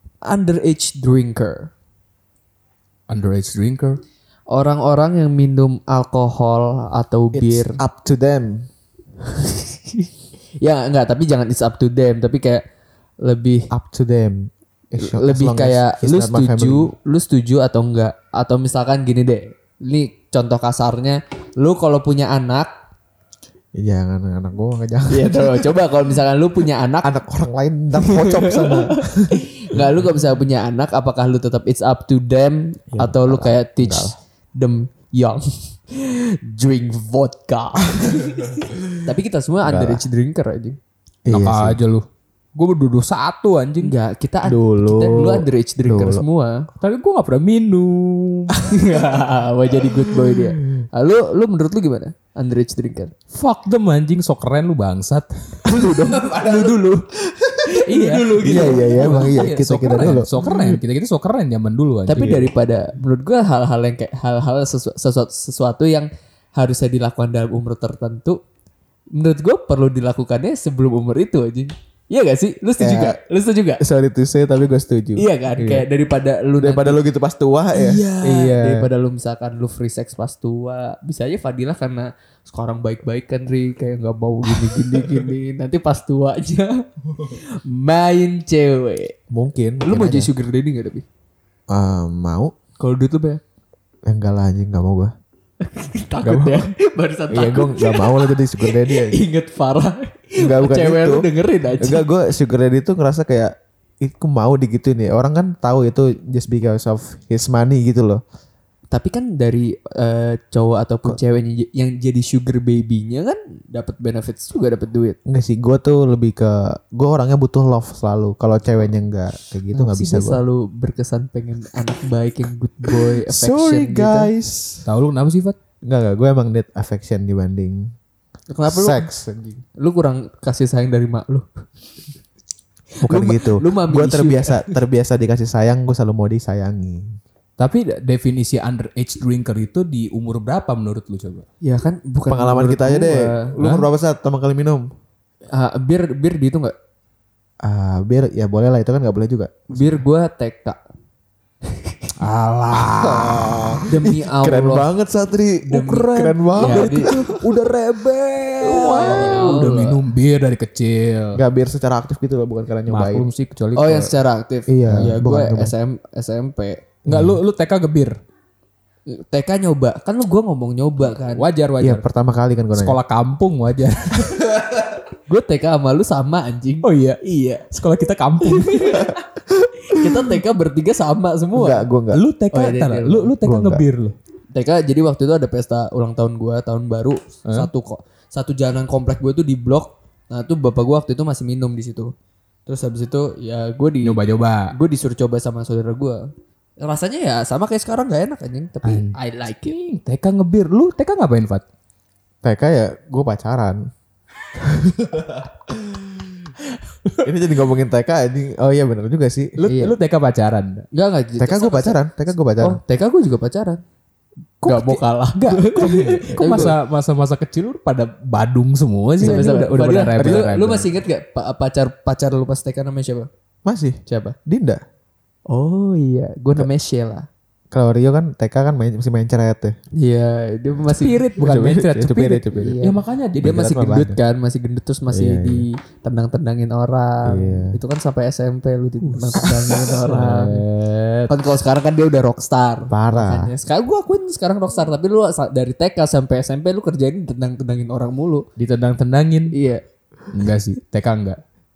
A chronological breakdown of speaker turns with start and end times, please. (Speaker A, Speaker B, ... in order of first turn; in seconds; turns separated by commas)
Speaker A: 0.2-1.7, Speaker B: 3.1-4.0, Speaker A: 4.5-7.8, Speaker C: 7.3-8.7, Speaker A: 10.6-12.6, Speaker A: 13.2-13.7, Speaker C: 13.7-16.9, Speaker A: 15.0-22.7, Speaker C: 23.8-25.7, Speaker A: 25.1-27.1, Speaker C: 27.0-30.0, Speaker A: 28.0-40.8, Speaker C: 33.0-34.1, Speaker C: 39.6-40.0, Speaker C: 41.2-41.8, Speaker B: 41.3-42.0, Speaker B: 42.5-43.9, Speaker A: 43.8-46.6, Speaker C: 44.4-46.2, Speaker B: 46.8-48.6, Speaker A: 48.6-53.1, Speaker C: 49.9-50.8, Speaker B: 53.3-55.6, Speaker A: 55.6-59.5, Speaker C: 56.0-56.7, Speaker C: 57.4-57.8, Speaker B: 57.8-62.4, Speaker C: 58.4-60.3, Speaker A: 60.1-60.7, Speaker A: 62.1-68.4, Speaker C: 62.1-62.5, Speaker A: 69.1-73.8, Speaker C: 72.8-73.2, Speaker C: 73.8-75.8, Speaker A: 75.2-77.0, Speaker C: 76.6-78.9, Speaker A: 77.7-89.1, Speaker C: 84.5-85.3, Speaker C: 89.3-90.3, Speaker A: 89.8-91.0, Speaker C: 91.7-92.5, Speaker A: 92.8-93.4, Speaker C: 94.0-95.1, Speaker A: 95.6-102.0, Speaker C: 96.2-96.7, Speaker C: 97.3-99.2, Speaker C: 100.4-101.2, Speaker C: 101.8-108.2, Speaker A: 108.9-115.2, Speaker C: 115.2-120.4, Speaker A: 119.7-124.3, Speaker C: 122.9-124.8, Speaker B: 124.8-125.6, Speaker C: 125.8-127.9, Speaker A: 128.5-129.1, Speaker C: 128.7-129.6, Speaker A: 129.8-131.4, Speaker C: 133.0-137.2, Speaker A: 133.0-134.7, Speaker B: 137.6-141.4, Speaker A: 141.6-143.5, Speaker C: 142.3-144.9, Speaker B: 143.6-143.9, Speaker A: 145.5-146.7, Speaker C: 147.6-150.0, Speaker A: 149.7-150.8, Speaker B: 152.2-153.8, Speaker C: 152.7-157.4, Speaker A: 153.9-154.9, Speaker B: 155.7-161.4, Speaker A: 156.6-157.1, Speaker C: 158.6-159.6, Speaker A: 158.6-160.0, Speaker C: 161.3-163.2, Speaker B: 162.9-164.1, Speaker A: 163.7-166.8, Speaker C: 164.7-165.7, Speaker C: 167.0-167.4, Speaker B: 167.1-168.2, Speaker A: 169.1-171.4, Speaker B: 171.3-172.1, Speaker C: 171.8-173.0, Speaker B: 172.7-174.6, Speaker A: 175.3-177.7, Speaker B: 176.8-179.1, Speaker A: 178.4-179.2, Speaker A: 179.8-181.8, Speaker C: 181.5-182.2, Speaker B: 182.1-184.2, Speaker A: 182.5-183.3, Speaker C: 183.4-183.8, Speaker A: 184.5-192.1, Speaker A: 192.7-194.2, Speaker B: 194.0-194.7, Speaker A: 194.7-196.2, Speaker A: 196.8-199.8, Speaker B: 198.8-201.6, Speaker C: 202.4-203.9, Speaker C: 204.5-206.2, Speaker C: 207.2-209.6, Speaker B: 209.6-210.8, Speaker A: 209.7-209.9, Speaker A: 210.9-212.0, Speaker C: 211.4-212.8, Speaker A: 212.6-213.8, Speaker B: 214.6-220.9, Speaker A: 214.6-216.7, Speaker C: 216.0-216.7, Speaker C: 219.2-220.5, Speaker A: 219.2-223.3, Speaker C: 223.6-224.8, Speaker A: 224.1-224.3, Speaker A: 225.5-227.3, Speaker C: 227.7-229.8, Speaker A: 230.0-231.2, Speaker B: 231.0-233.6, Speaker C: 231.3-232.8, Speaker A: 232.6-240.6, Speaker C: 233.3-234.2, Speaker C: 235.1-235.7, Speaker C: 237.2-237.8, Speaker B: 239.0-241.3, Speaker C: 240.1-240.6, Speaker A: 241.3-248.5, Speaker C: 242.9-243.5, Speaker B: 248.6-249.5, Speaker A: 249.5-249.8, Speaker B: 250.3-251.4